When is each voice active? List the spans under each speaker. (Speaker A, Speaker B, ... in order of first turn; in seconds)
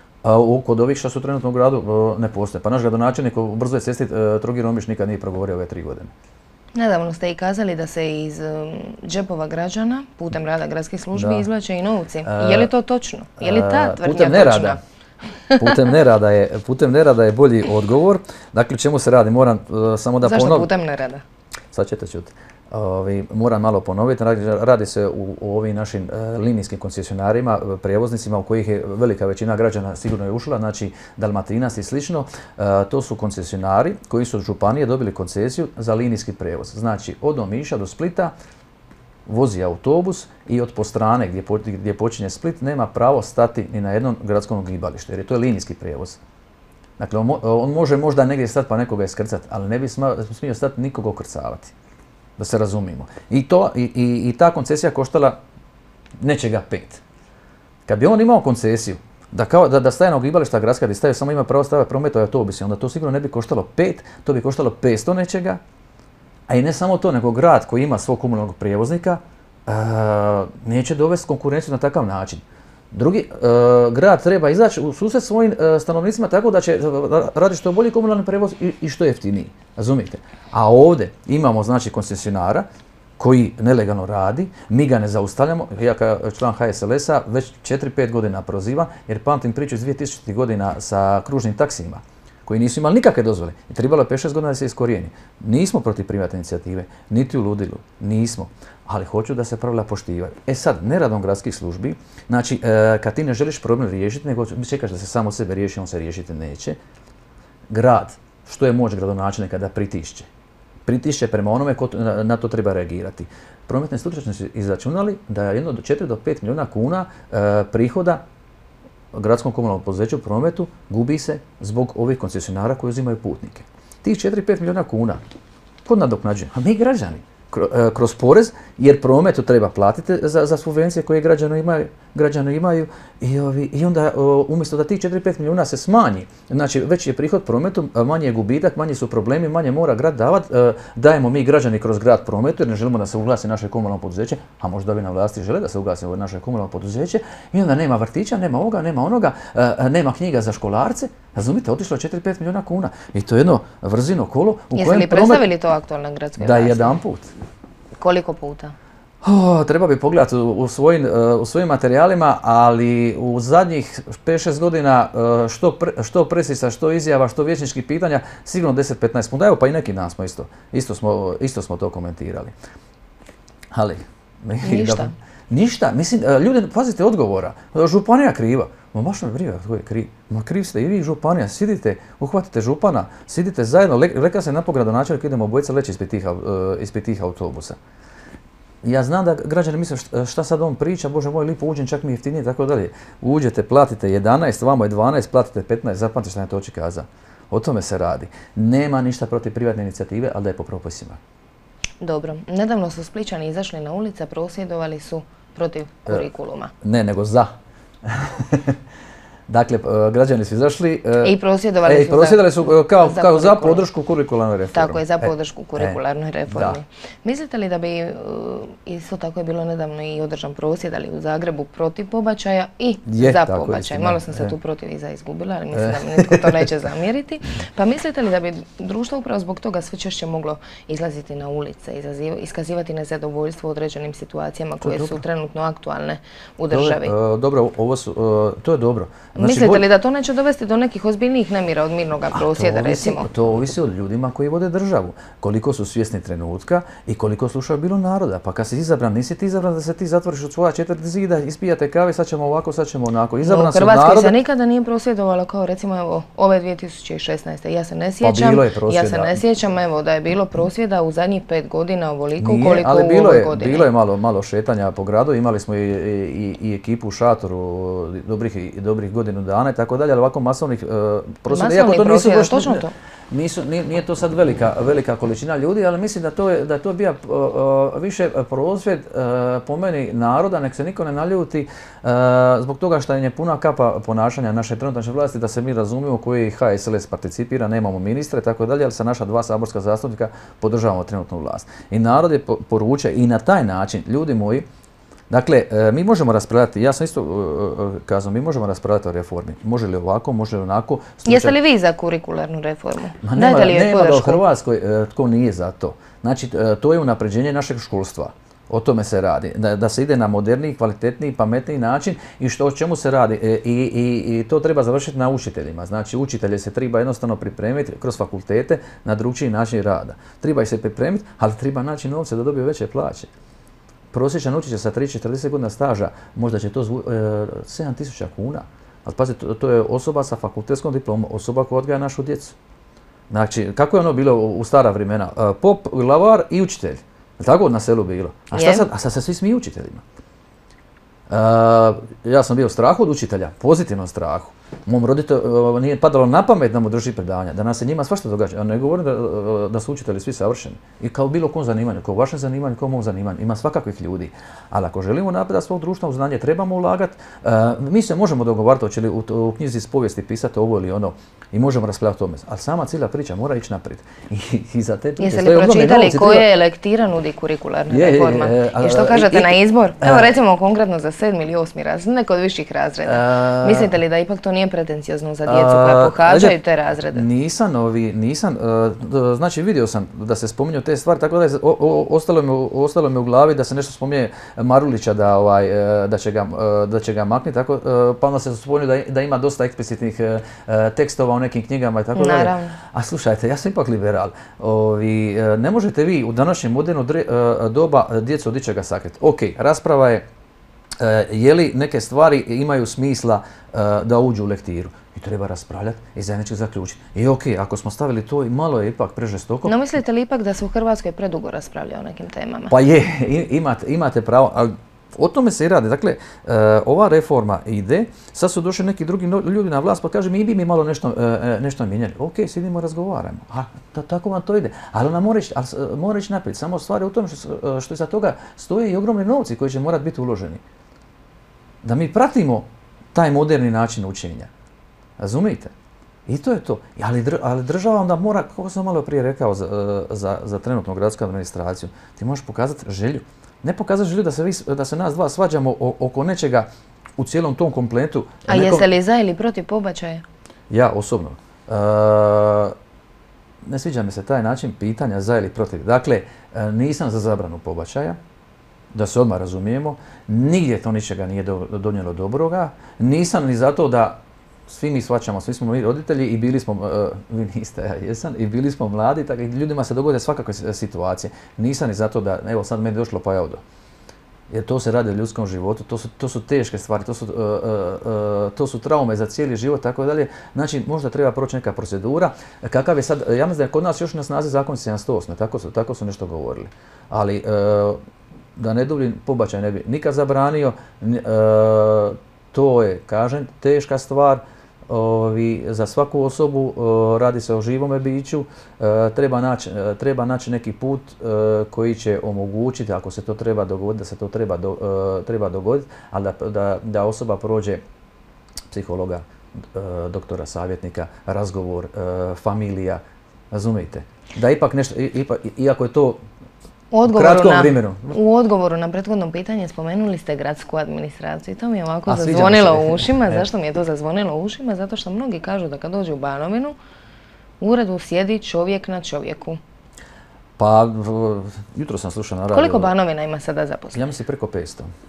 Speaker A: 0.2-6.1, 11.2-11.5, 12.2-12.7, 13.4-14.8, 15.6-20.7, 21.7-38.3, 39.3-46.2, 47.0-51.7, 52.4-55.4, 56.2-57.0, 57.9-65.6, 66.5-82.7, 83.2-106.8, 107.7-110.3, 110.9-118.2, 119.1-125.2, 125.8-155.5, 156.4-157.3, 159.2-172.6, 173.7-187.8, 188.8-201.2, 206.8-207.5, 208.0-208.8, 209.5-216.8, 223.1-224.5, 225.7-226.7, 234.8-235.2, 236.7-239.8, 242.3-254.4, 258.2-259.4, 262.4-294.7, 295.3-301.6, 303.2-323.3, 324.1-332.6, 333.3-340.0, 341.3-366.5, 367.9-370.3, 373.1-374.0, 375.4-376.6, 377.1-400.2, 401.0-409.8, 412.7-430.6, 431.8-434.5, 435.2-435.7, 436.3-448.9, 450.7-452.8, 453.6-458.2, 458.9-473.6, 474.5-488.0, 488.6-507.8, 508.7-516.2, 517.0-518.2, 522.1-523.5, 530.6-532.9, 533.9-534.9
Speaker B: 6.8-14.8, 15.5-15.8, 20.2-21.2, 154.7-157.0, 158.0-158.8, 174.6-175.1, 202.0-206.7, 211.2-213.8, 214.7-237.1, 239.4-243.3, 253.4-263.9, 271.5-272.9, 301.3-304.4, 338.5-338.9, 365.2-377.3, 392.1-392.8, 409.7-412.8, 448.5-450.2, 516.9-526.8, 527.6-529.6, 532.5-534.1